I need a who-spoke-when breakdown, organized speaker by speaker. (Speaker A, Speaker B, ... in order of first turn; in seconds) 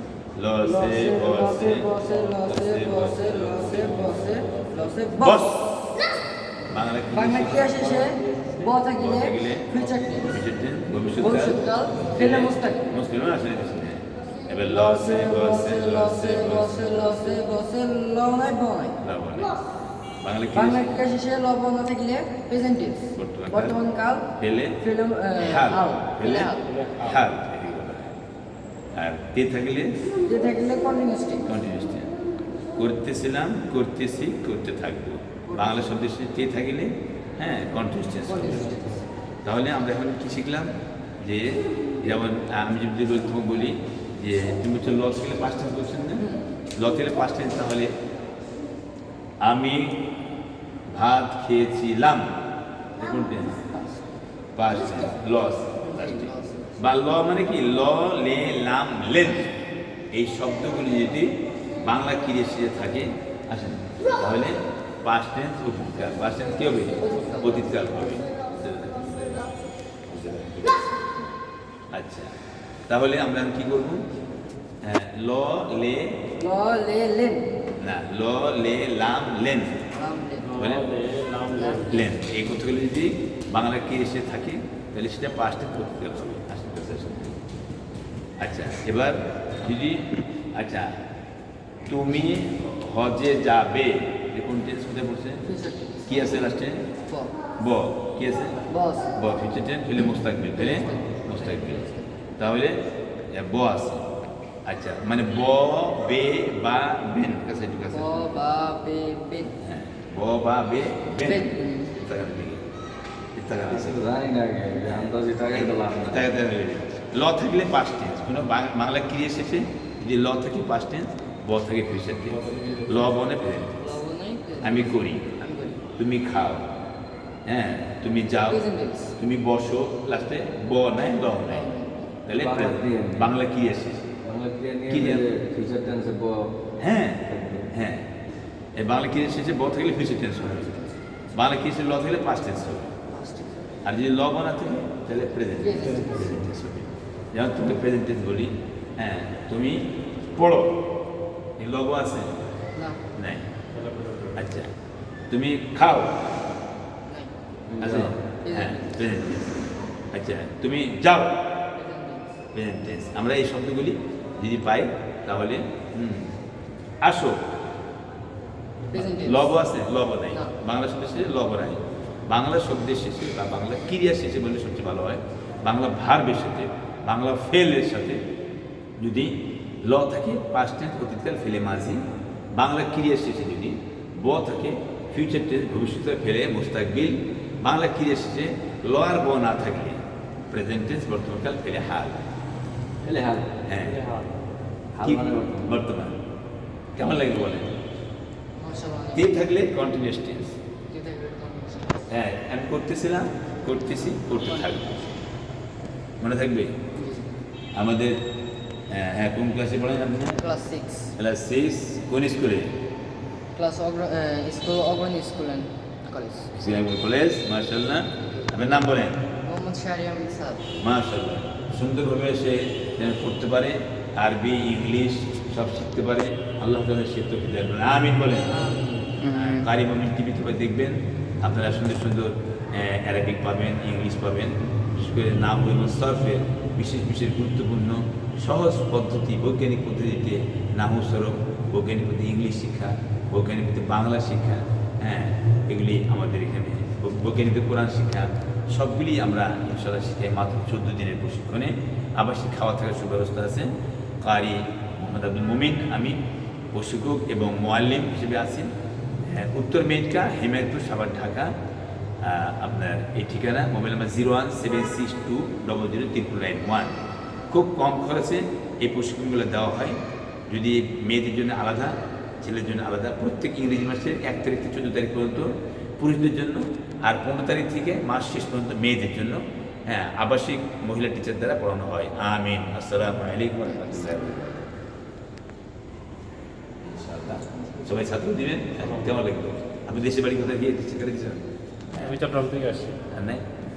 Speaker A: 0.3-6.1, 6.7-8.1, 8.8-17.4, 19.0-19.6, 20.2-20.9, 23.1-23.8, 24.3-24.8, 25.3-28.2, 28.9-30.1, 31.4-32.1, 32.7-38.8, 39.4-47.9, 49.4-50.0, 50.9-52.3, 53.0-53.7, 54.5-59.5, 60.1-69.5, 70.0-71.3, 71.9-72.3, 72.9-74.1, 74.8-76.3, 77.8-79.8, 80.5-80.9, 81.9-87.4, 88.4-91.0, 91.9-95.5, 96.0-96.9, 97.6-101.8, 102.4-104.1, 104.7-108.3, 109.6-112.6, 113.3-114.0, 115.5-123.9, 124.6-125.3, 126.0-126.7, 127.5-131.7, 132.2-134.1, 134.9-135.2, 136.8-138.1, 138.8-140.8, 141.3-142.9, 143.8-150.8, 151.6-152.4, 153.1-153.5, 154.3-154.7, 155.3-156.2, 157.8-161.3, 162.5-166.3, 167.0-167.4, 168.9-178.2, 179.0-192.2, 193.7-194.1, 195.0-196.2, 196.9-197.8, 199.1-200.6, 202.1-204.9, 206.2-206.8, 207.7-208.2, 208.9-210.4, 211.2-212.8, 216.5-219.2, 220.7-256.2, 256.7-258.7, 259.2-261.5, 262.2-267.0, 267.5-284.6, 286.8-292.2, 293.1-293.4
Speaker B: 0.6-5.7, 7.1-10.4, 11.2-12.9, 14.6-19.0, 20.5-26.7, 30.2-31.4, 35.5-36.0, 38.3-39.1, 55.8-56.8, 67.0-67.9, 76.4-77.5, 79.9-80.5, 81.5-82.0, 95.5-96.4, 97.1-97.3, 98.7-99.2, 100.5-102.1, 107.9-109.5, 111.2-111.9, 123.8-125.8, 128.4-129.1, 131.4-132.1, 143.1-143.6, 145.6-146.4, 152.8-153.0, 157.1-157.3, 158.4-159.0, 161.7-162.3, 168.9-169.6, 198.6-199.4, 200.9-202.1, 204.3-205.1, 206.9-207.3, 210.4-211.1, 213.5-216.5, 218.3-218.7, 219.4-220.7, 228.4-229.6, 283.6-284.6
Speaker C: 26.7-27.2, 80.4-81.9, 122.3-123.1, 153.8-154.3, 193.8-194.3, 288.8-289.2, 292.0-293.0
Speaker D: 113.6-116.3, 132.3-133.3, 134.2-136.5, 137.3-137.7, 157.7-158.1, 193.0-193.5, 194.9-195.7